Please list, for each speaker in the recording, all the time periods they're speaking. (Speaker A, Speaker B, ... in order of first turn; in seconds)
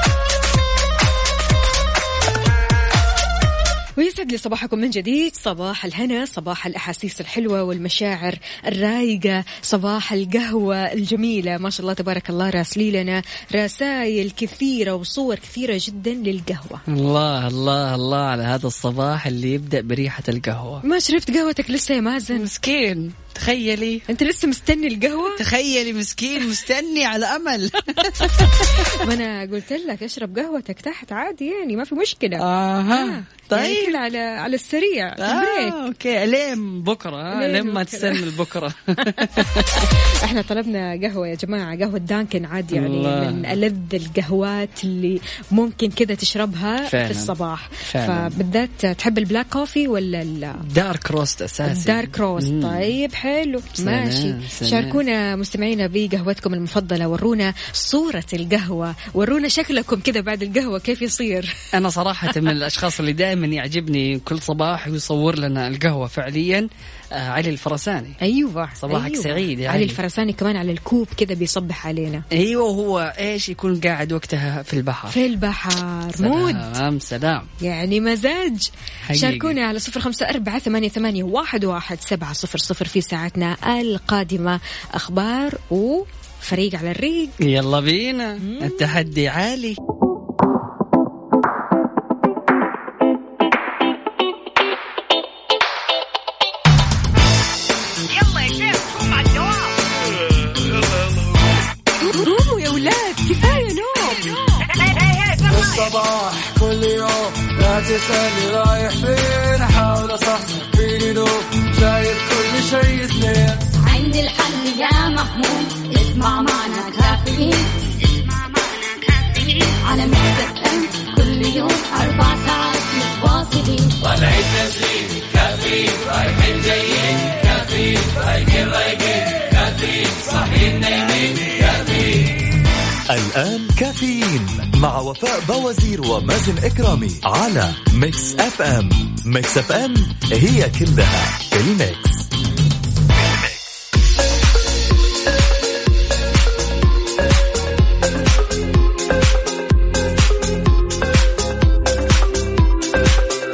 Speaker A: 4.0-16.8, 20.8-22.5, 24.1-25.4, 28.1-35.8, 37.3-38.2, 39.0-50.6, 51.6-61.6, 68.2-72.2, 75.1-76.7, 77.6-87.4, 88.4-88.8, 102.0-104.6
Speaker B: 16.9-20.8, 22.3-24.1, 25.3-29.1, 32.4-34.0, 35.2-39.9, 42.7-43.6, 46.9-48.3, 50.6-53.0, 53.8-55.0, 61.7-68.2, 68.8-70.0, 72.3-75.2, 76.2-77.5, 79.1-79.6, 87.4-89.8
Speaker C: 100.7-101.5, 104.8-113.6, 124.7-132.2
Speaker D: 113.8-124.5
Speaker E: 133.1-142.3, 143.1-143.7